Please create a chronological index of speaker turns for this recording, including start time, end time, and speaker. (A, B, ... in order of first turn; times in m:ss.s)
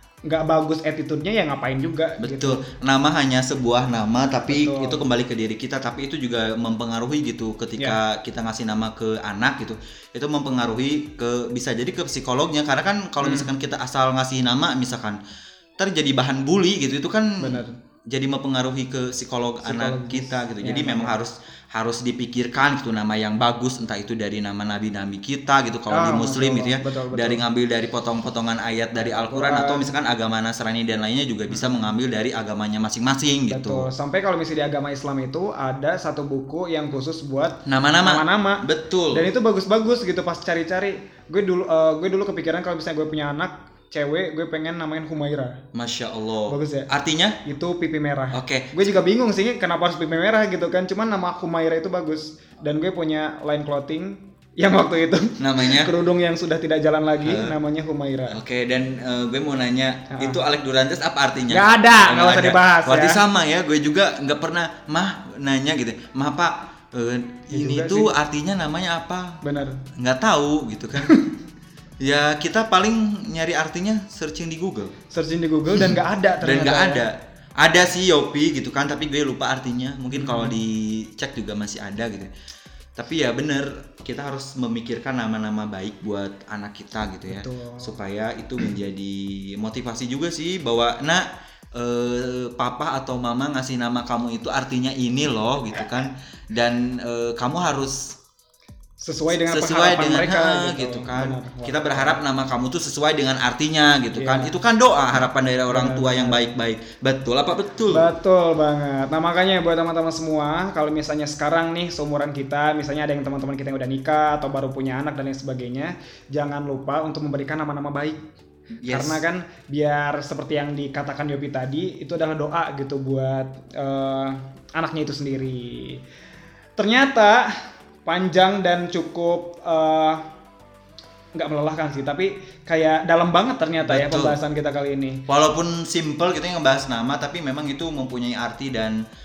0:00.3-0:02.6 A
0:02.2-0:15.2 B
0:04.5-0:05.0 A
0:13.2-0:13.5 A
0:15.8-0:33.9 B
0:17.4-0:17.8 A
0:19.6-0:21.2 A
0:25.9-0:27.4 A
0:29.0-0:29.9 A
0:33.5-0:45.6 A
0:37.7-0:39.3 B
0:45.7-0:47.4 B
0:46.5-0:46.9 A
0:47.4-0:58.4 A
0:48.3-0:48.9 B
0:55.4-0:55.9 B
0:57.2-0:57.6 B
0:58.3-1:09.4 B
1:00.1-1:00.4 A
1:01.5-1:03.2 A
1:07.5-1:08.1 A
1:09.4-1:09.8 A
1:10.0-1:11.2 B
1:11.0-1:11.3 A
1:12.0-1:14.9 B
1:15.1-1:17.1 A
1:15.7-1:22.3 B
1:20.1-1:20.6 A
1:23.0-1:38.2 B
1:27.3-1:28.0 A
1:39.0-1:42.2 A
1:39.3-1:48.1 B
1:44.1-1:44.5 A
1:45.7-1:46.4 A
1:47.9-1:58.3 A
1:58.8-1:59.2 B
1:58.9-2:06.0 A
2:06.8-2:07.5 A
2:08.0-2:10.2 A
2:11.4-2:15.2 A
2:13.8-2:14.4 B
2:15.3-2:19.0 B